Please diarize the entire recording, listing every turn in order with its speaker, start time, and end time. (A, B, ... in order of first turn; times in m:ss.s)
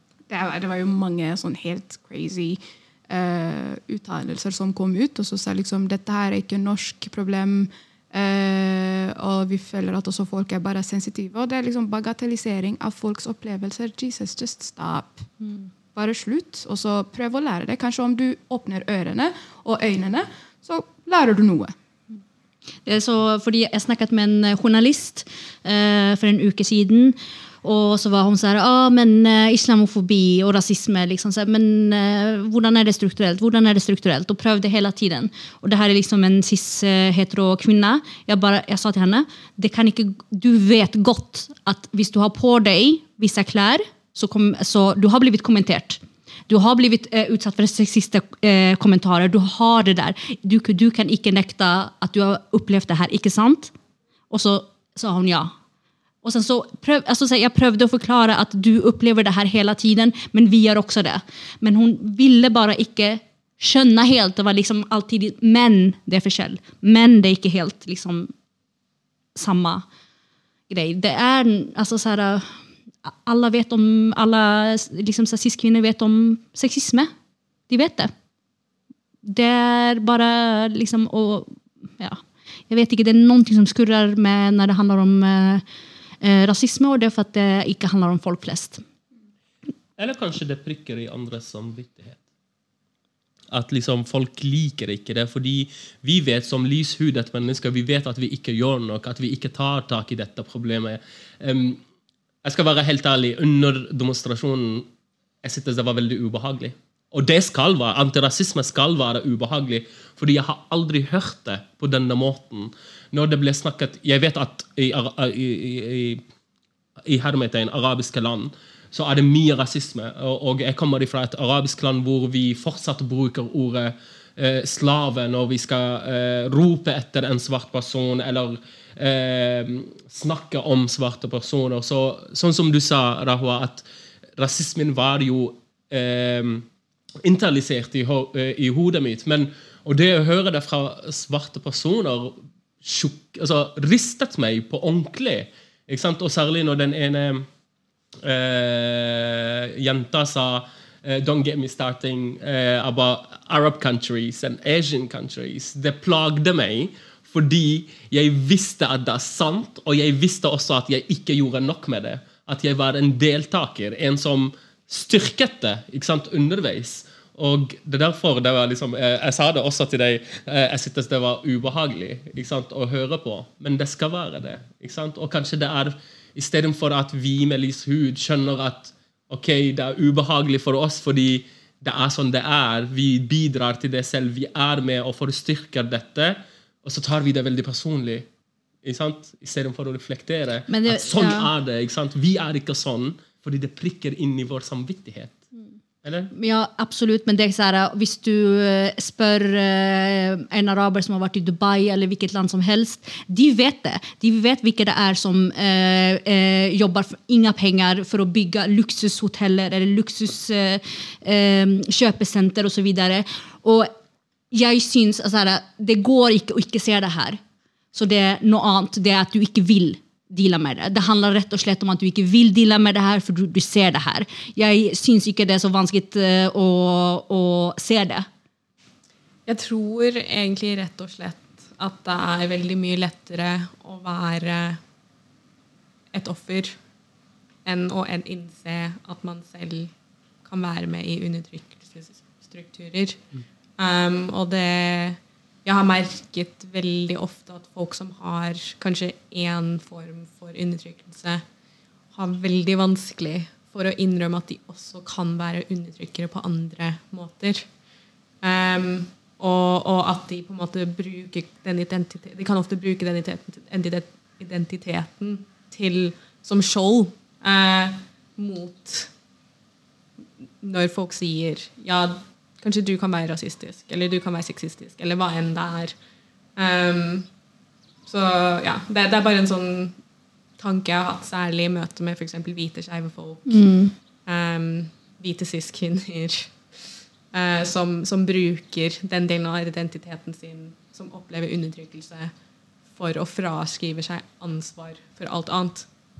0:00.3-0:15.3 A
0:15.4-0:15.7 B
0:15.9-0:21.7 A
0:22.8-0:53.7 B
0:54.3-0:55.5 B
0:56.2-1:08.3 B
1:09.3-1:09.8 B
1:10.7-1:17.1 B
1:17.7-1:18.1 B
1:19.2-1:25.6 B
1:26.2-1:28.8 B
1:30.0-1:32.2 C
1:33.5-1:41.8 C
1:42.4-1:44.9 C
1:45.4-1:56.2 C
1:57.0-2:13.8 C
2:14.4-2:16.7 C
2:17.2-2:27.5 C
2:28.2-3:08.3 C
3:08.8-3:15.4 C
3:10.7-3:11.5 B
3:16.0-3:16.3 C
3:16.3-3:33.9 B
3:34.5-3:37.4 B
3:37.9-3:48.3 B
3:49.4-3:54.8 D
3:56.1-3:56.8 D
3:57.6-3:59.9 D
4:00.4-4:03.2 D
4:03.8-4:11.4 D
4:12.1-4:17.7 D
4:18.4-4:29.1 D
4:30.6-4:35.9 D
4:36.6-4:37.3 D
4:38.0-4:40.0 D
4:40.6-4:43.6 D
4:43.5-4:43.9 B
4:44.2-4:46.6 D
4:47.3-4:52.3 D
4:52.9-4:55.9 D